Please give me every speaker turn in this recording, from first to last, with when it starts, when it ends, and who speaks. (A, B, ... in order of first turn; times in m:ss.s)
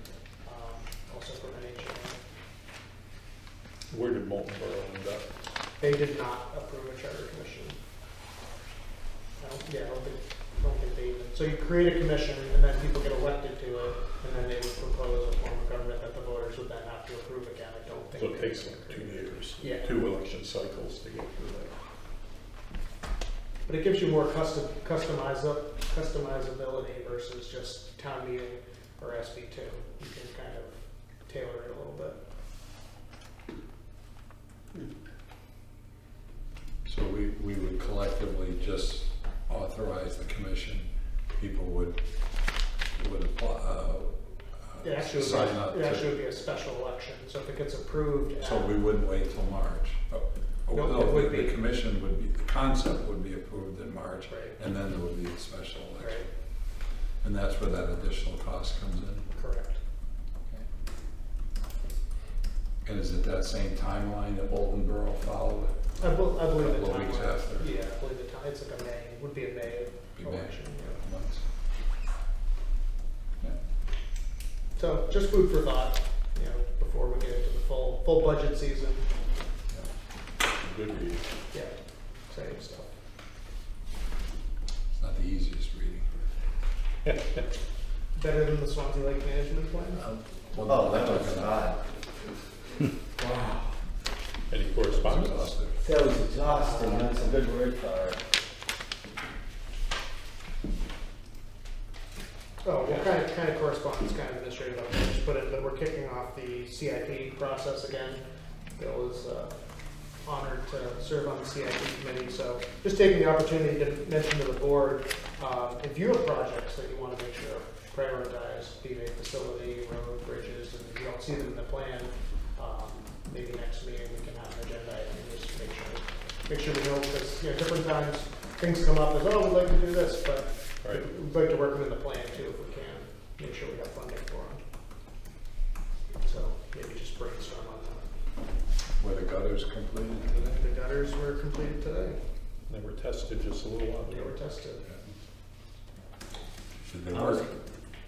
0:00.4-0:02.2 A
0:03.9-0:05.3 B
0:05.8-0:07.8 A
0:09.4-0:19.9 A
0:18.1-0:21.7 B
0:23.6-0:32.2 A
0:36.8-0:42.0 C
0:42.9-0:46.2 C
0:44.8-0:48.7 A
0:48.4-0:56.2 C
0:50.7-0:51.5 A
0:54.3-0:54.6 A
0:56.0-0:56.2 A
0:57.2-0:59.2 C
0:59.3-0:59.8 A
1:02.8-1:07.7 C
1:06.0-1:11.0 A
1:10.2-1:11.4 C
1:14.8-1:19.1 A
1:20.6-1:21.2 B
1:22.3-1:22.9 A
1:24.9-1:26.2 C
1:28.2-1:30.0 A
1:30.0-1:31.6 C
1:30.6-1:31.8 D
1:33.2-1:33.7 D
1:34.5-1:35.5 B
1:34.8-1:35.8 C
1:35.8-1:38.2 D
1:36.5-1:37.3 A
1:42.6-1:48.2 A
1:48.8-1:49.5 A
1:50.2-2:14.6 A
2:10.8-2:11.1 B
2:16.2-2:18.0 A
2:19.0-2:20.6 C
2:20.6-2:22.2 A
2:22.7-2:24.3 B
2:24.1-2:24.8 A
2:26.8-2:27.5 C
2:27.1-2:27.5 D